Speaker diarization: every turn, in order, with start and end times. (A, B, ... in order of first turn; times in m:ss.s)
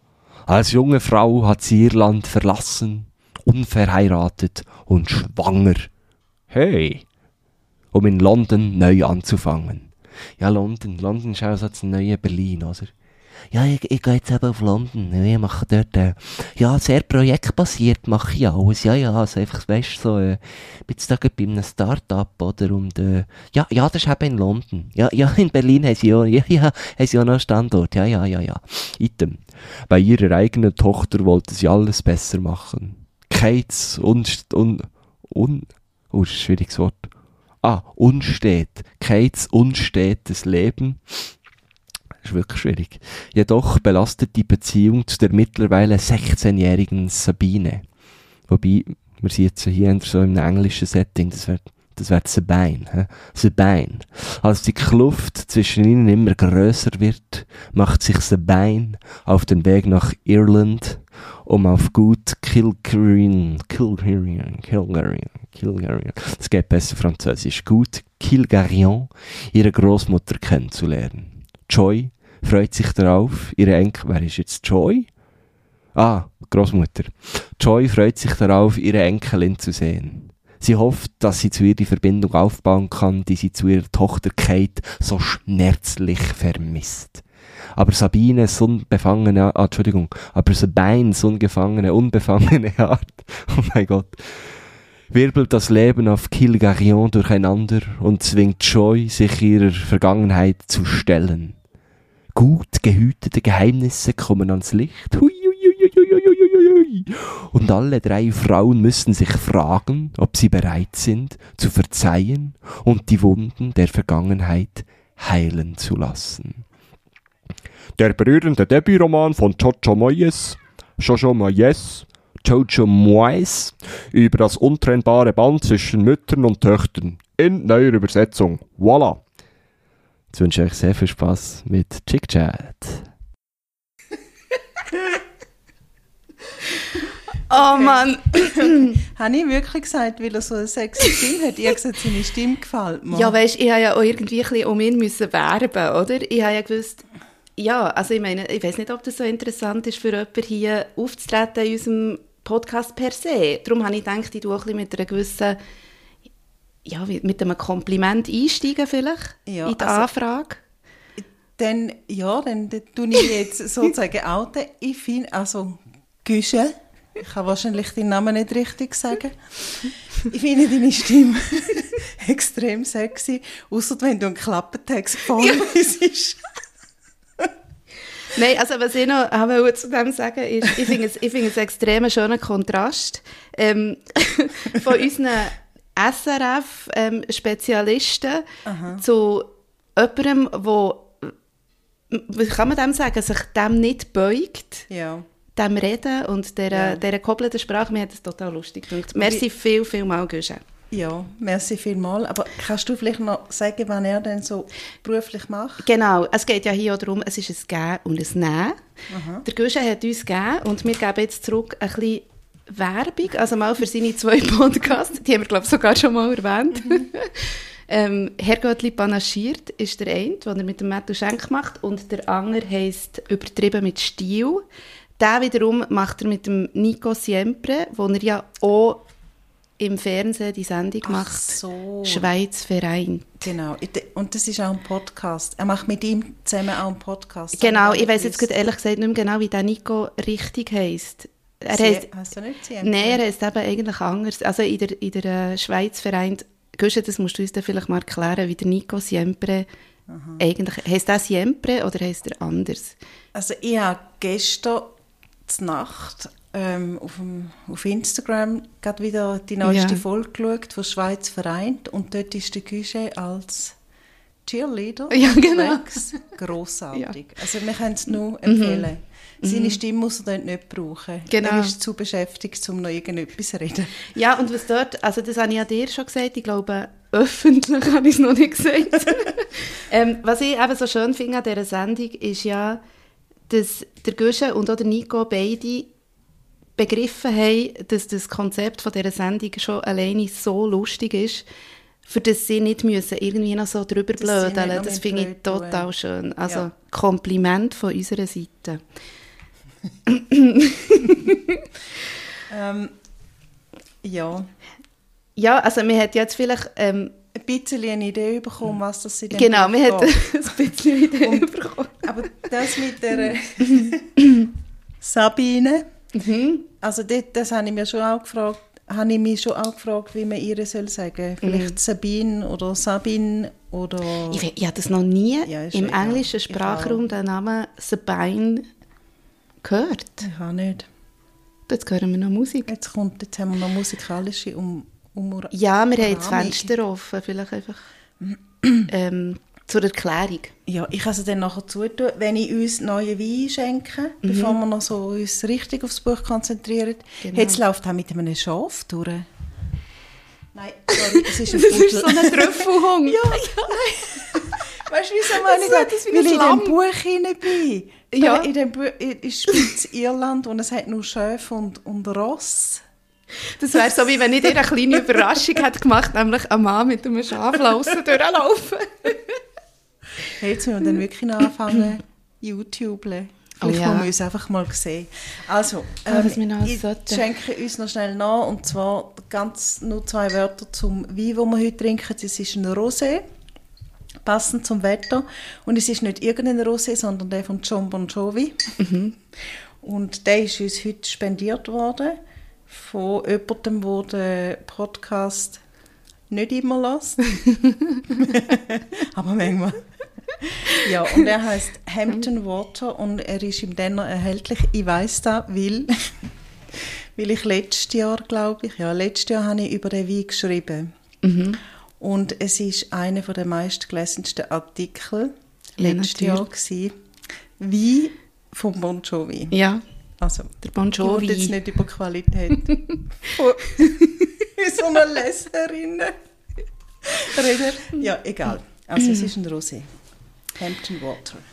0:00.5-0:05.9 A
0:06.5-0:07.1 A
0:07.9-0:12.9 A
0:13.5-0:37.1 A
0:37.6-0:41.3 A
0:42.2-0:47.9 A
0:48.5-1:15.1 A
1:16.0-1:27.2 A
1:27.8-1:34.6 A
1:35.1-1:41.6 A
1:42.3-1:56.6 A
1:58.0-2:09.2 A
2:10.3-2:13.1 A
2:17.5-2:19.0 B
2:17.5-2:23.4 C
2:23.1-2:27.0 B
2:27.6-2:35.6 B
2:36.9-2:40.6 B
2:39.5-2:40.1 C
2:41.2-2:56.4 C
2:58.3-3:08.4 B
3:08.6-3:09.0 C
3:09.0-3:11.3 B
3:12.1-3:14.9 B
3:14.9-3:15.2 C
3:15.6-3:20.6 B
3:16.7-3:17.0 C
3:19.2-3:19.5 C
3:20.9-3:25.8 C
3:25.8-3:28.8 B
3:29.1-3:29.4 C
3:29.4-3:44.6 B
3:45.2-3:49.1 B
3:49.8-3:53.5 B
3:51.0-3:52.3 C
3:53.4-3:58.5 C
3:57.6-4:02.1 B
4:01.7-4:03.2 C
4:02.8-4:09.7 B
4:10.1-4:10.4 C
4:10.4-4:13.0 B
4:13.4-4:15.0 C
4:15.5-4:23.8 C
4:19.6-4:20.0 B
4:24.4-4:34.1 C
4:25.1-4:26.2 B
4:28.4-4:28.9 B
4:29.4-4:29.8 B
4:31.3-4:31.7 B
4:34.1-4:42.8 B
4:43.5-4:45.9 B
4:46.8-4:51.4 B
4:52.0-4:58.8 B
4:54.2-4:55.9 C
5:00.1-5:01.6 B
5:02.5-5:02.9 C
5:04.0-5:04.5 C
5:05.4-5:07.2 B
5:07.3-5:10.2 C
5:09.3-5:12.1 B
5:11.2-5:11.5 C
5:12.0-5:14.4 C
5:13.7-5:14.5 B
5:15.0-5:15.8 C
5:16.2-5:16.7 B
5:16.7-5:24.4 C
5:21.4-5:21.8 B
5:24.3-5:28.7 B
5:25.5-5:27.1 C
5:29.6-5:30.2 B
5:30.2-5:30.9 C
5:31.7-5:32.7 B
5:32.7-5:36.7 C
5:35.5-5:37.8 B
5:38.2-5:38.9 C
5:38.9-5:40.5 B
5:40.7-5:49.3 C
5:44.2-5:44.6 B
5:47.2-5:47.6 B
5:50.5-6:02.8 C
5:50.9-5:53.8 B
5:54.3-5:54.8 B
5:55.3-5:56.8 B
5:58.1-5:58.5 B
6:03.6-6:09.4 B
6:03.7-6:05.3 C
6:10.3-6:23.2 C
6:13.6-6:14.1 B
6:16.1-6:17.3 B
6:24.2-6:28.7 C
6:28.8-6:29.1 B
6:29.8-6:32.2 C
6:32.7-6:35.6 C
6:36.3-6:37.4 C
6:38.1-6:39.8 C
6:40.4-6:46.2 C
6:46.8-6:50.9 C
6:51.2-6:51.6 B
6:52.0-6:57.0 C
6:55.8-6:56.4 B
6:57.6-6:59.6 C
6:59.5-6:59.8 B
7:00.2-7:06.1 C
7:00.6-7:01.5 B
7:03.4-7:04.0 B
7:07.0-7:09.9 C
7:10.6-7:11.4 C